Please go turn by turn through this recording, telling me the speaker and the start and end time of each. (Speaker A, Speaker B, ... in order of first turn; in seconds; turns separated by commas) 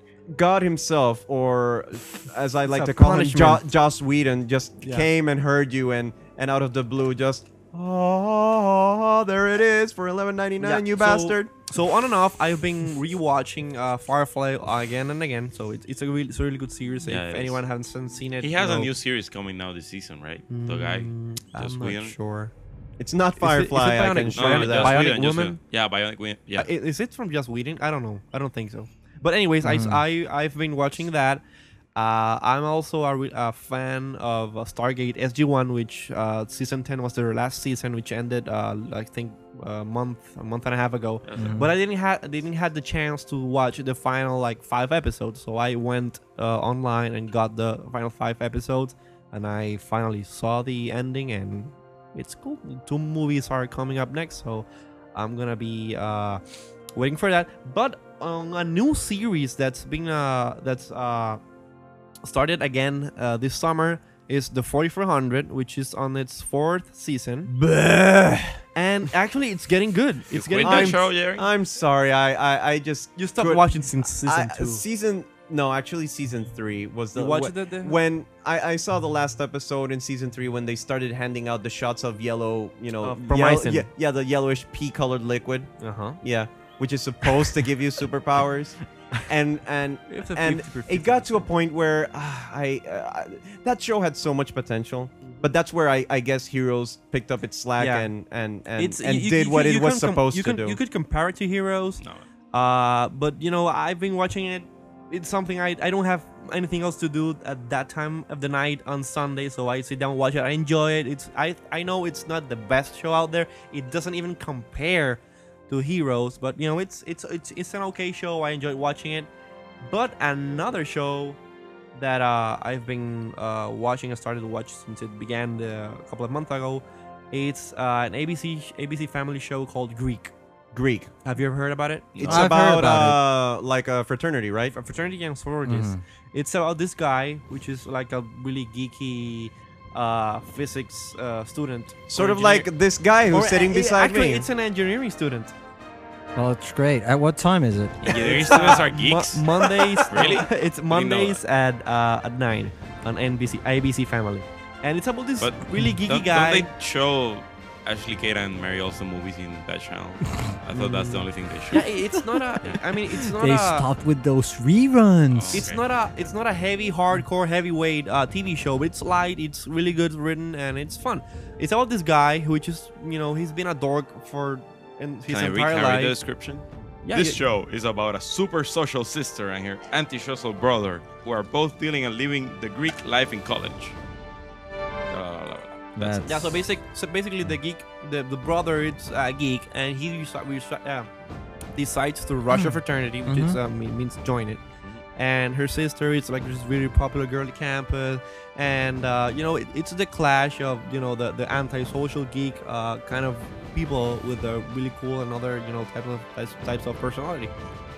Speaker A: 0.3-11.5, Speaker B: 2.7-3.6, Speaker B: 4.8-5.1, Speaker B: 10.6-18.9, Speaker C: 17.0-17.6, Speaker C: 18.4-22.1, Speaker B: 20.5-22.5, Speaker A: 23.0-24.9, Speaker B: 23.4-25.6, Speaker C: 24.3-26.7, Speaker B: 26.6-31.4, Speaker D: 29.6-30.0, Speaker B: 31.9-56.4, Speaker C: 41.2-41.7, Speaker D: 41.4-41.7, Speaker B: 56.9-61.4, Speaker B: 62.2-71.0, Speaker C: 70.3-71.5, Speaker A: 70.6-73.6, Speaker B: 73.2-74.8, Speaker A: 74.2-85.7, Speaker B: 77.1-78.0, Speaker B: 83.0-83.9, Speaker B: 85.8-86.2, Speaker A: 86.2-88.8, Speaker A: 89.3-100.8, Speaker B: 90.1-91.5, Speaker B: 95.2-95.5, Speaker B: 97.8-98.1, Speaker B: 98.8-119.3, Speaker B: 119.8-121.4, Speaker B: 121.9-130.3, Speaker A: 130.7-131.1, Speaker B: 131.2-132.2, Speaker C: 132.1-132.5, Speaker A: 132.2-134.8, Speaker D: 132.2-133.2, Speaker B: 134.7-142.7, Speaker D: 135.6-136.0, Speaker A: 142.1-144.5, Speaker B: 143.3-145.5, Speaker D: 146.3-148.1, Speaker C: 148.0-151.4, Speaker B: 148.1-156.7, Speaker C: 155.4-161.9, Speaker B: 160.7-163.9, Speaker D: 163.1-165.7, Speaker C: 165.3-165.8, Speaker B: 165.5-176.1, Speaker C: 175.3-183.9, Speaker B: 177.1-177.4, Speaker C: 185.1-186.3, Speaker D: 185.9-186.6, Speaker B: 186.2-191.1, Speaker B: 191.7-194.6, Speaker D: 192.5-193.6, Speaker B: 195.1-207.5